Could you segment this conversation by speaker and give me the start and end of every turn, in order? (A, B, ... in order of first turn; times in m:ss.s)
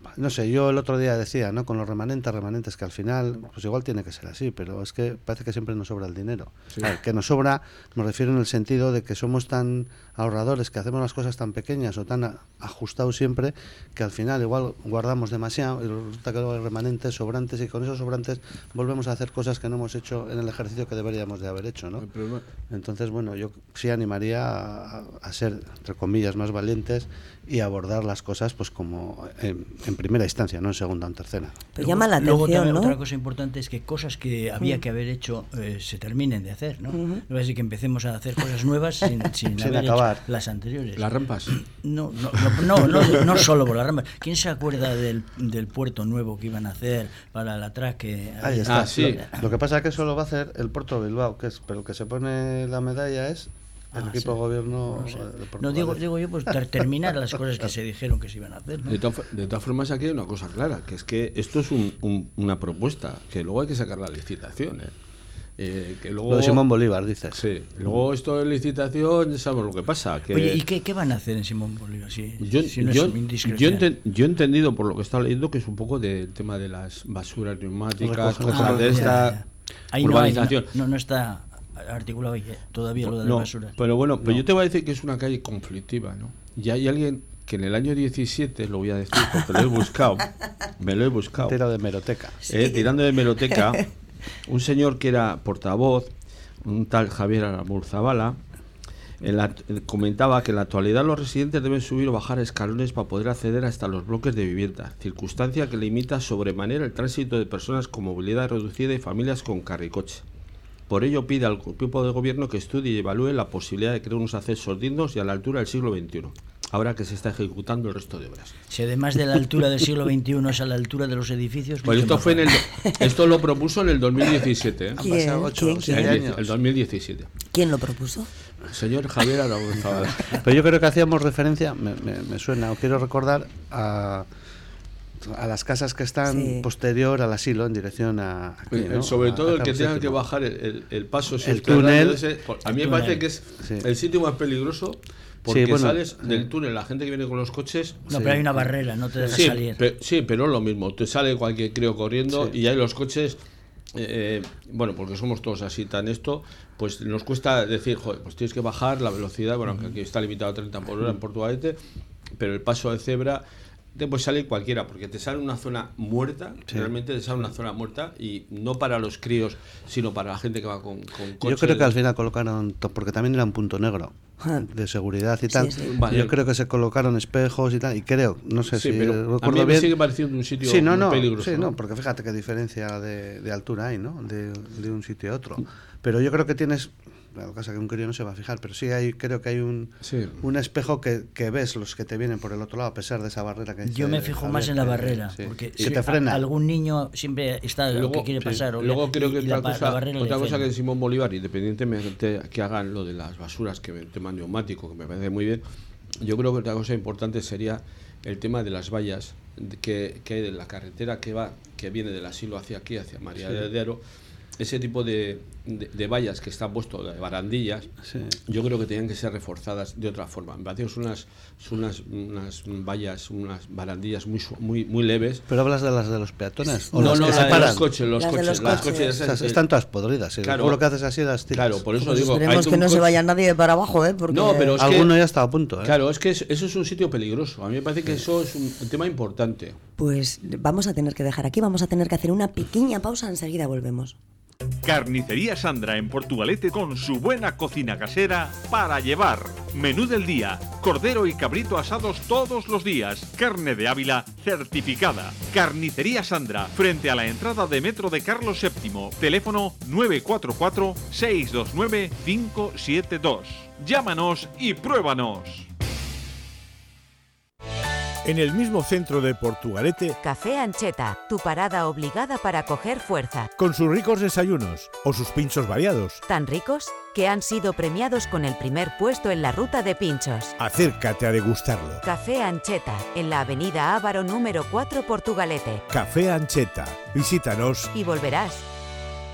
0:00.2-0:22.1 A
0:22.0-0:22.4 B
0:22.7-0:31.6 A
0:31.8-0:33.0 C
0:31.8-0:49.4 D
0:36.9-0:37.2 C
0:39.6-0:40.2 A
0:41.0-0:41.5 B
0:48.4-0:56.0 A
0:48.7-0:49.2 B
0:54.0-0:59.0 D
0:58.9-1:04.9 B
1:05.6-1:06.6 B
1:06.3-1:07.4 A
1:07.4-1:10.6 B
1:10.3-1:13.8 D
1:12.4-1:19.4 B
1:18.0-1:19.2 A
1:18.5-1:23.7 D
1:20.0-1:20.7 B
1:23.0-1:31.6 B
1:31.4-1:32.4 A
1:32.5-1:33.8 B
1:32.5-1:32.8 C
1:34.5-1:36.1 B
1:36.6-1:38.4 B
1:39.2-1:50.2 B
1:50.9-1:58.6 B
1:58.7-2:02.5 D
2:01.8-2:05.0 B
2:05.0-2:06.5 A
2:05.0-2:06.2 C
2:05.8-2:07.3 B
2:07.5-2:08.3 C
2:08.7-2:10.4 B
2:09.8-2:14.3 A
2:15.2-2:20.2 A
2:16.3-2:16.7 C
2:18.7-2:28.0 B
2:21.4-2:22.2 A
2:22.6-2:23.2 D
2:23.6-2:23.9 A
2:25.5-2:26.5 A
2:28.1-2:28.7 A
2:28.1-2:29.8 D
2:29.3-2:33.4 B
2:33.9-2:41.8 B
2:42.4-2:43.4 B
2:43.9-2:52.0 B
2:51.4-3:00.0 A
2:55.5-2:56.0 C
2:55.8-2:56.3 B
2:58.7-3:01.7 B
3:00.6-3:16.4 A
3:10.0-3:10.4 B
3:13.9-3:20.7 D
3:17.9-3:25.6 B
3:26.2-3:34.0 B
3:33.4-3:33.6 A
3:34.6-3:37.9 B
3:38.0-3:38.4 A
3:38.5-3:45.4 B
3:45.5-3:47.9 A
3:47.0-3:49.6 B
3:47.0-3:49.1 C
3:48.6-3:51.8 A
3:50.4-3:50.8 B
3:51.5-3:53.2 B
3:52.0-3:54.9 C
3:54.3-3:55.1 B
3:54.8-3:56.0 A
3:55.8-3:59.8 B
4:00.0-4:04.2 C
4:04.8-4:25.7 E
4:28.2-4:30.2 F
4:30.2-4:33.5 G
4:33.6-4:36.2 F
4:36.3-4:40.5 G
4:40.6-4:42.0 F
4:42.0-4:45.8 G
4:45.9-4:47.9 F
4:47.9-4:48.6 G